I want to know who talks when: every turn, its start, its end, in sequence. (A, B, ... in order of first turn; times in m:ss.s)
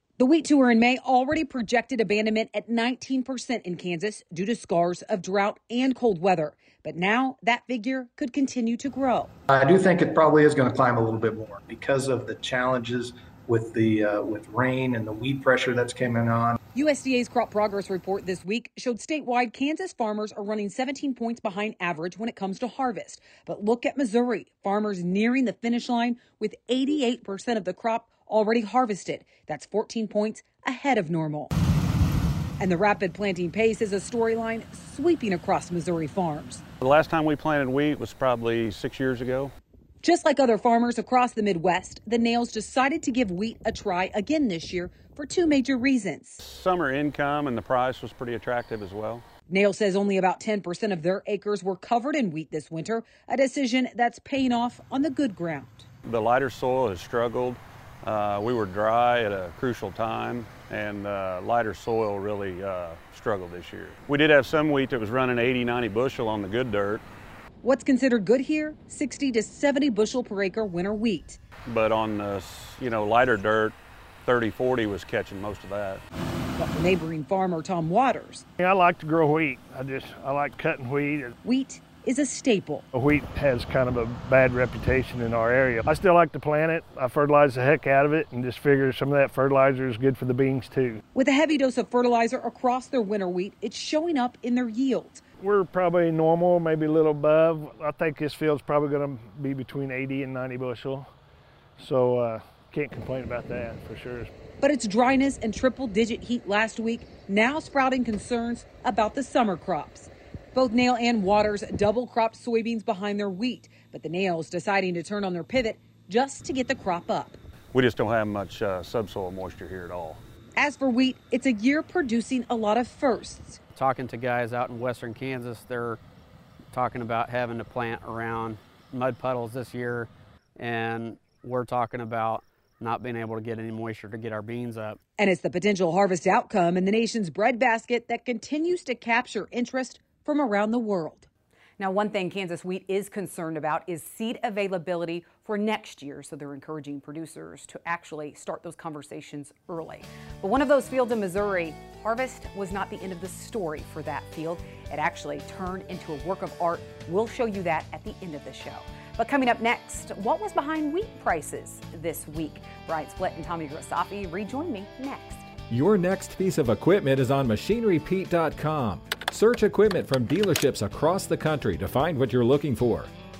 0:00.2-0:09.3 A
0:09.5-0:16.6 B
0:16.7-0:31.5 A
0:32.6-0:36.6 A
0:36.8-0:39.5 C
0:40.0-0:46.4 A
0:46.4-0:49.2 C
0:49.5-0:55.8 A
0:56.0-1:07.0 C
1:07.6-1:11.4 A
1:11.6-1:16.0 C
1:16.6-1:18.4 A
1:18.6-1:21.3 D
1:21.4-1:22.8 A
1:22.9-1:31.0 D
1:31.1-1:35.2 A
1:35.4-1:41.1 D
1:41.8-1:44.3 D
1:44.6-1:57.4 A
1:57.7-2:00.2 C
2:00.6-2:03.6 A
2:03.7-2:06.0 E
2:06.7-2:15.0 E
2:15.2-2:45.5 A
2:45.7-2:53.1 F